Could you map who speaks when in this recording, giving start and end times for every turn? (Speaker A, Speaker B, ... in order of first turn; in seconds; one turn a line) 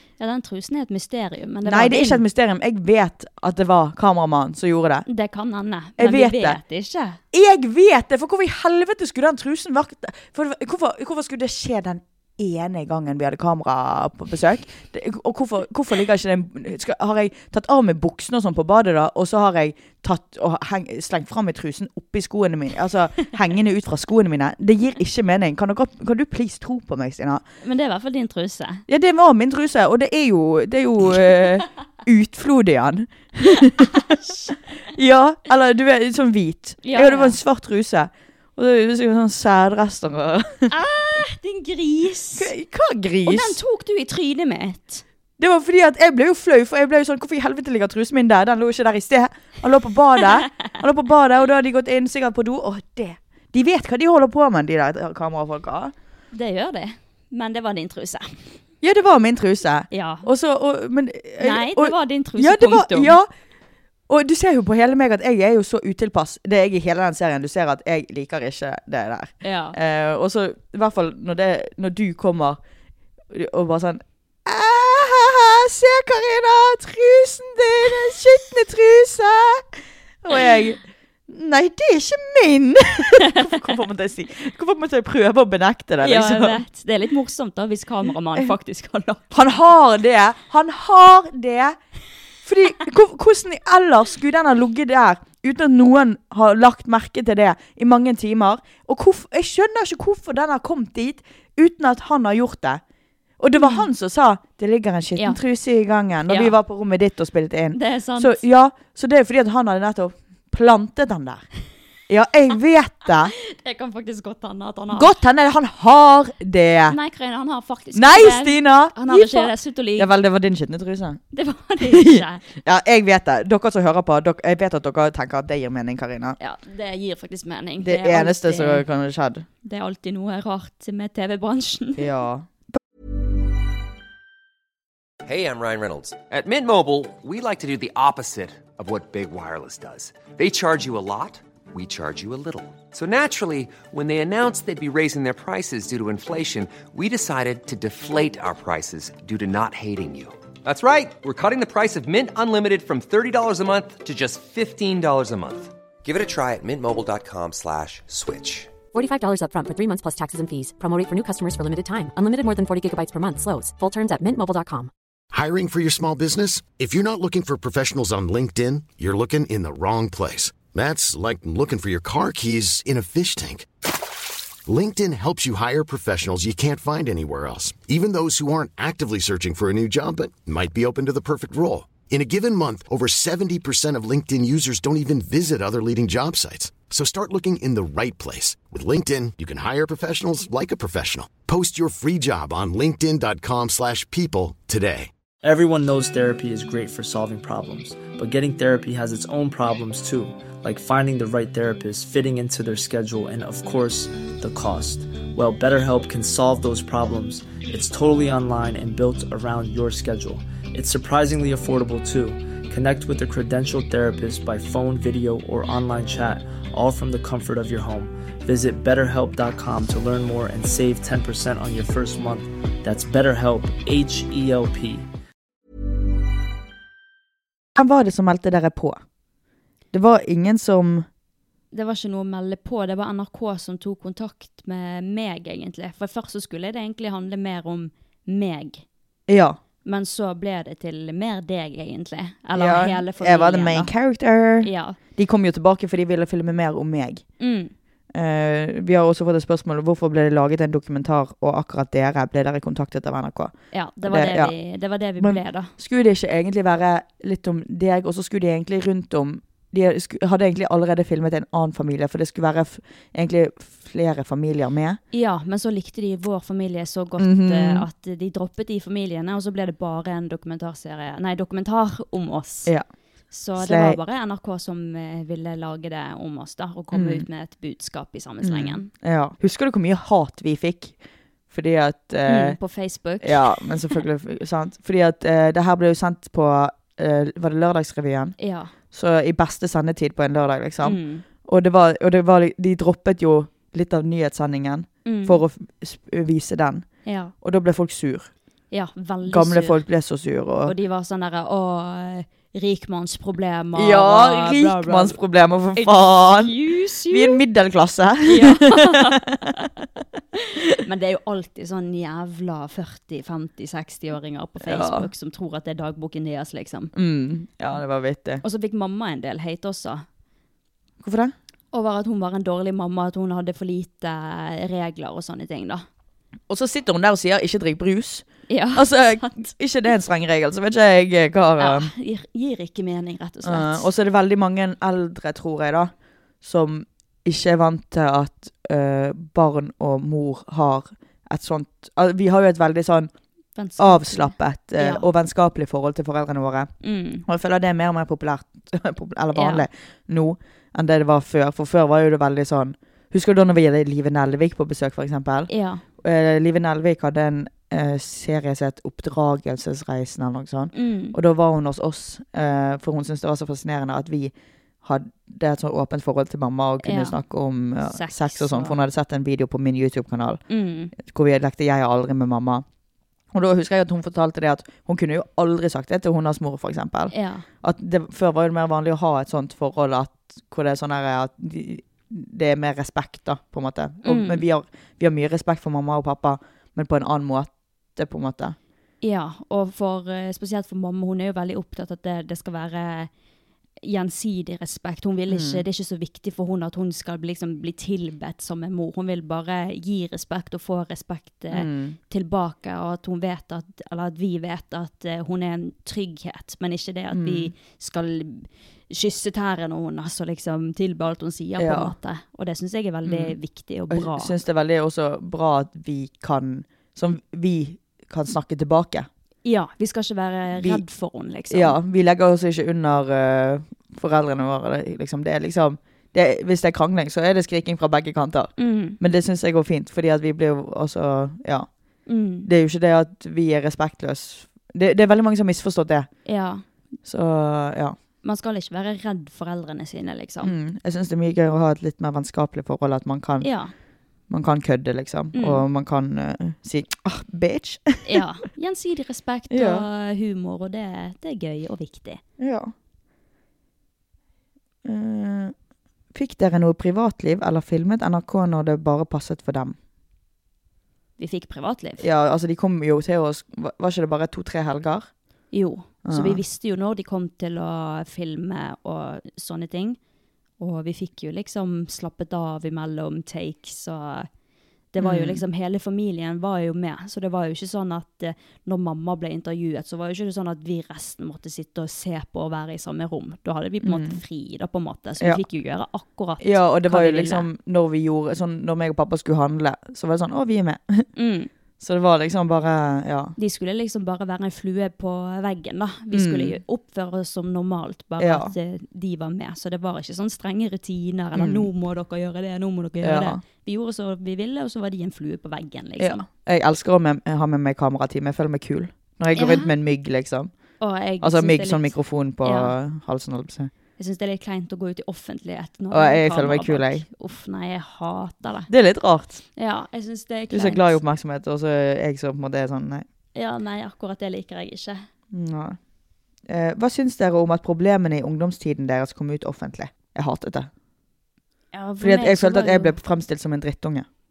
Speaker A: 0.2-2.2
Speaker B: 1.6-5.0
Speaker A: 5.1-7.2
Speaker B: 6.0-6.6
Speaker B: 7.3-27.4
Speaker A: 27.6-28.8
Speaker B: 28.9-34.1
Speaker A: 33.9-34.5
Speaker B: 34.9-40.7
Speaker A: 36.8-37.4
Speaker A: 40.7-42.5
Speaker B: 42.4-43.6
Speaker A: 43.2-45.0
Speaker B: 45.4-55.9
Speaker A: 56.3-58.3
Speaker B: 58.8-63.3
Speaker A: 59.9-60.3
Speaker A: 61.4-63.1
Speaker B: 64.1-72.6
Speaker A: 69.4-69.8
Speaker B: 73.3-86.6
Speaker A: 83.2-83.5
Speaker A: 86.0-89.3
Speaker B: 89.3-91.8
Speaker B: 92.4-102.8
Speaker B: 103.4-111.5
Speaker A: 103.5-103.8
Speaker A: 106.3-106.5
Speaker A: 107.7-108.4
Speaker B: 112.1-113.3
Speaker A: 113.5-115.2
Speaker B: 114.9-117.0
Speaker A: 116.9-120.1
Speaker B: 117.9-121.2
Speaker A: 121.3-122.5
Speaker B: 121.9-126.4
Speaker A: 126.4-128.8
Speaker B: 127.8-129.4
Speaker A: 129.6-132.1
Speaker B: 132.0-132.5
Speaker C: 135.2-158.7
Speaker D: 158.9-164.9
Speaker E: 165.3-173.7
Speaker E: 174.7-195.1
Speaker F: 195.4-225.1
Speaker B: 227.7-229.0
Speaker B: 229.9-231.1
Speaker A: 231.7-238.8
Speaker B: 239.3-239.6
Speaker A: 239.8-243.9
Speaker B: 242.5-247.2
Speaker A: 244.6-245.0
Speaker A: 247.4-247.7
Speaker B: 248.1-254.5
Speaker A: 253.7-255.7
Speaker B: 255.2-265.0
Speaker A: 265.1-272.7
Speaker B: 267.2-267.9
Speaker A: 273.3-278.9
Speaker B: 273.6-274.0
Speaker B: 276.9-277.2
Speaker B: 278.4-281.0
Speaker B: 281.5-282.6
Speaker A: 282.3-284.0
Speaker B: 283.2-288.4
Speaker A: 288.4-288.7
Speaker B: 288.9-296.9
Speaker A: 290.8-291.2
Speaker A: 295.0-295.4
Speaker A: 297.0-297.3
Speaker B: 297.4-298.3
Speaker A: 298.7-299.8
Speaker B: 299.2-300.7
Speaker A: 300.6-305.2
Speaker B: 303.7-306.6
Speaker A: 305.8-307.4
Speaker B: 307.1-309.4
Speaker A: 308.2-309.8
Speaker A: 310.8-316.9
Speaker B: 314.6-315.1
Speaker B: 316.9-318.4
Speaker A: 318.4-320.0
Speaker B: 321.0-321.3
Speaker A: 321.7-325.8
Speaker B: 326.5-331.9
Speaker A: 328.5-329.4
Speaker A: 331.6-333.9
Speaker B: 333.4-343.1
Speaker A: 343.5-345.1
Speaker B: 343.8-346.7
Speaker A: 346.8-347.2
Speaker B: 347.2-370.4
Speaker A: 349.3-349.6
Speaker A: 355.5-355.8
Speaker A: 360.7-361.2
Speaker A: 366.8-367.2
Speaker A: 367.8-368.8
Speaker A: 370.5-370.9
Speaker B: 370.9-372.6
Speaker B: 373.3-388.6
Speaker A: 377.1-377.4
Speaker A: 384.0-384.4
Speaker A: 389.0-393.1
Speaker A: 393.8-414.3
Speaker B: 395.3-395.6
Speaker B: 401.5-402.0
Speaker B: 407.1-407.5
Speaker B: 411.6-411.9
Speaker B: 413.0-413.4
Speaker B: 413.9-419.1
Speaker A: 419.4-421.8
Speaker B: 420.5-420.8
Speaker B: 421.5-431.7
Speaker A: 428.6-429.0
Speaker A: 432.1-432.5
Speaker B: 432.4-436.1
Speaker A: 436.2-436.6
Speaker B: 437.0-437.9
Speaker A: 438.2-440.5
Speaker B: 440.4-443.5
Speaker A: 443.4-443.7
Speaker B: 444.3-448.2
Speaker A: 445.3-445.6
Speaker A: 448.0-452.2
Speaker B: 449.5-449.9
Speaker B: 452.4-452.7
Speaker B: 454.8-455.5
Speaker B: 456.1-459.8
Speaker A: 461.2-462.0
Speaker B: 462.0-465.1
Speaker A: 465.5-470.0
Speaker B: 466.0-466.4
Speaker A: 470.6-474.3
Speaker A: 474.9-487.5
Speaker B: 475.0-475.4
Speaker B: 483.8-484.2
Speaker B: 486.4-491.1
Speaker A: 491.1-491.5
Speaker B: 491.8-493.3
Speaker A: 493.4-506.2
Speaker B: 496.1-496.6
Speaker B: 498.2-498.5
Speaker B: 501.3-501.7
Speaker B: 503.0-503.4
Speaker B: 506.0-510.5
Speaker A: 509.3-509.7
Speaker A: 510.8-512.7
Speaker B: 511.2-513.7
Speaker A: 514.0-518.7
Speaker B: 515.9-517.0
Speaker B: 518.7-519.4
Speaker A: 519.5-521.0
Speaker B: 520.5-523.0
Speaker A: 523.3-525.0
Speaker B: 525.3-525.8
Speaker B: 526.5-530.7
Speaker A: 531.7-533.0
Speaker B: 532.0-534.0